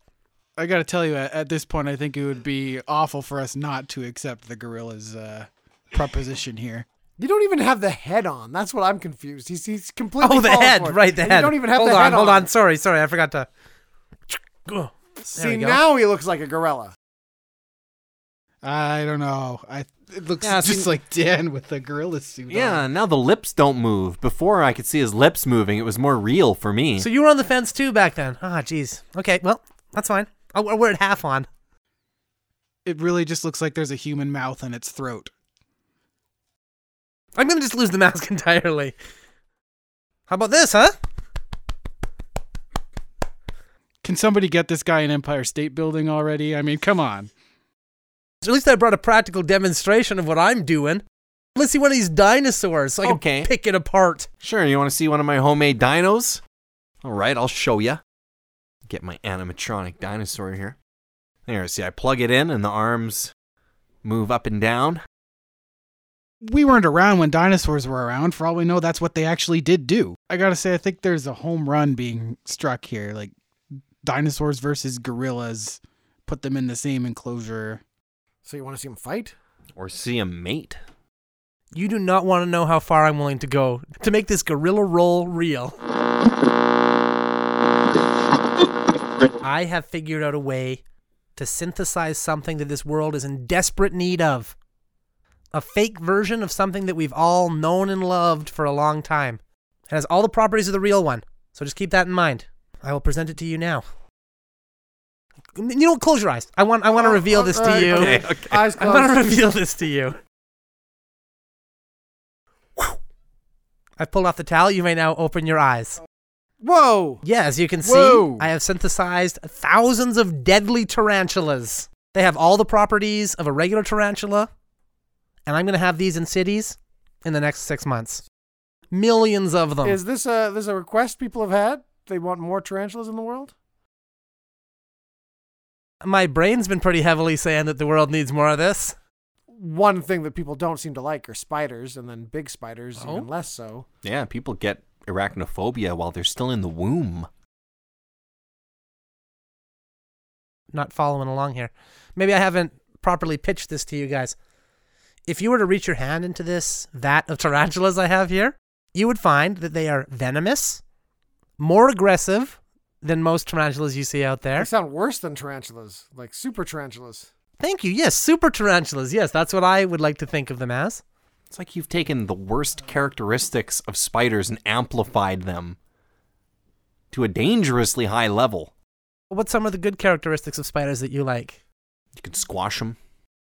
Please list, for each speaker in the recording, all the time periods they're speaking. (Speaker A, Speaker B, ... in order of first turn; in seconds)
Speaker A: 0.6-6.9, 18.6-22.8, 32.9-35.3, 44.0-47.3, 66.4-73.3, 74.0-77.8
Speaker B: 7.2-12.5, 15.3-16.9, 78.5-79.3, 106.9-109.3, 116.6-117.2, 117.8-118.5, 129.8-133.5, 139.5-143.9, 164.6-167.3
Speaker C: 10.2-13.5, 14.3-15.8, 27.0-31.5, 37.4-39.0, 40.3-41.0, 48.4-51.0, 51.5-54.3, 81.7-85.8, 89.4-90.8, 91.4-94.5, 95.5-103.8, 105.6-108.2, 108.8-110.2, 114.0-116.0, 117.2-124.5, 125.5-128.2, 128.9-130.0, 136.0-138.9, 143.0-143.3, 150.7-154.4, 155.3-160.8, 161.6-164.7, 167.6-171.0, 179.3-181.6
Speaker D: 20.4-20.9, 22.5-27.1, 53.0-53.5, 54.4-56.4, 57.0-58.0, 58.9-60.8, 61.5-63.3, 64.0-65.0, 79.8-80.8, 107.9-108.7, 144.0-147.3, 171.5-175.8, 177.1-178.7, 182.2-183.0